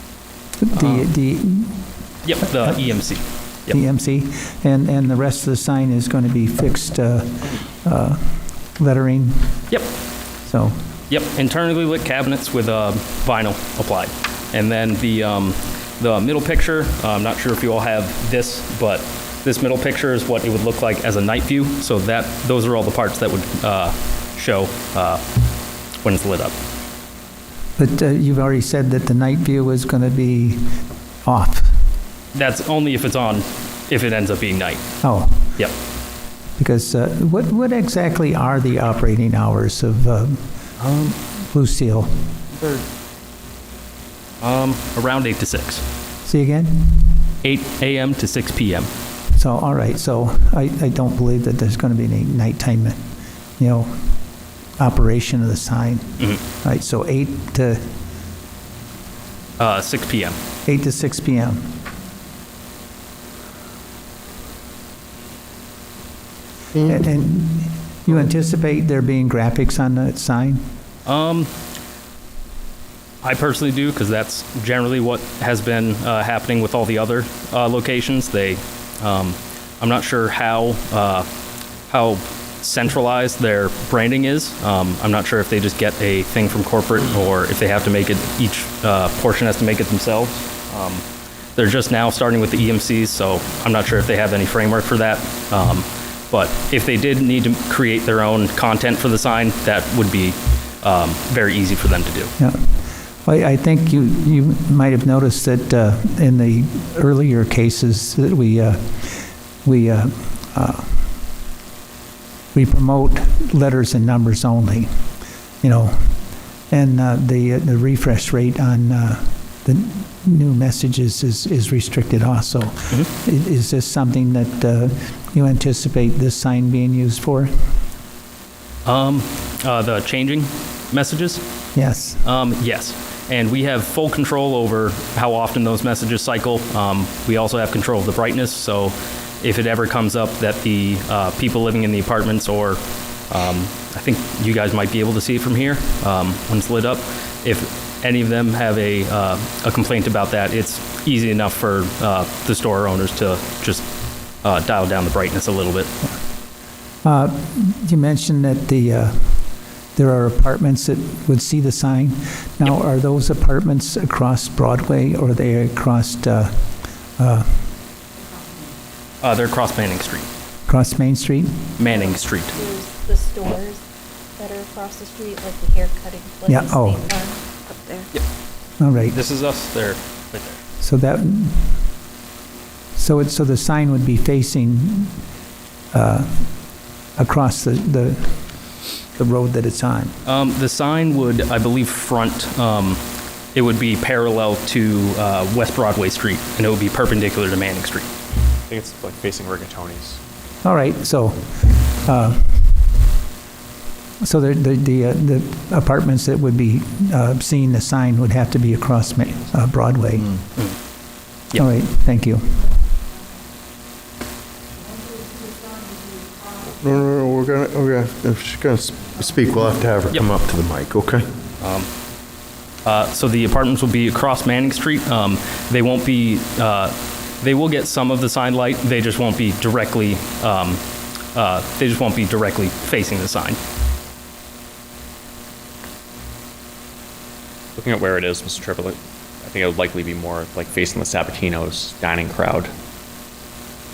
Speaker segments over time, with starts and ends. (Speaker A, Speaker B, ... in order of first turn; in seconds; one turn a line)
Speaker A: 0.6-1.9
Speaker B: 0.7-1.1
Speaker B: 2.2-3.8
Speaker A: 3.7-9.6
Speaker A: 10.4-10.8
Speaker B: 11.1-25.2
Speaker B: 26.0-26.5
Speaker A: 27.8-31.8
Speaker B: 32.3-35.0
Speaker A: 35.0-35.5
Speaker A: 36.6-40.5
Speaker B: 40.8-41.1
Speaker A: 41.4-42.3
Speaker B: 44.4-45.8
Speaker A: 46.2-47.2
Speaker B: 47.4-48.9
Speaker A: 49.3-53.1
Speaker A: 53.6-54.1
Speaker A: 54.8-57.9
Speaker B: 59.6-60.4
Speaker A: 60.6-61.7
Speaker A: 66.9-70.6
Speaker B: 71.0-71.5
Speaker B: 73.2-81.3
Speaker B: 81.9-91.0
Speaker B: 91.5-102.3
Speaker A: 102.4-111.2
Speaker A: 112.5-115.0
Speaker A: 115.6-127.5
Speaker B: 128.8-131.4
Speaker A: 131.7-132.2
Speaker B: 132.2-153.9
Speaker B: 154.4-155.9
Speaker A: 157.0-166.7
Speaker A: 167.2-167.6
Speaker B: 169.2-170.3
Speaker A: 170.7-171.7
Speaker B: 171.8-172.6
Speaker C: 171.9-173.8
Speaker C: 174.4-178.1
Speaker A: 176.4-177.1
Speaker A: 178.8-179.2
Speaker B: 179.1-180.6
Speaker A: 180.8-181.8
Speaker A: 182.9-185.2
Speaker A: 185.9-186.5
Speaker A: 187.2-188.4
Speaker A: 189.1-190.1
Speaker B: 190.2-193.0
Speaker B: 193.5-198.1
Speaker D: 198.7-200.2
Speaker A: 200.6-202.9
Speaker A: 204.2-210.3
Speaker A: 211.6-212.7
Speaker E: 216.8-221.2
Speaker B: 221.6-221.9
Speaker B: 222.8-230.8
Speaker B: 231.3-233.6
Speaker D: 237.8-242.7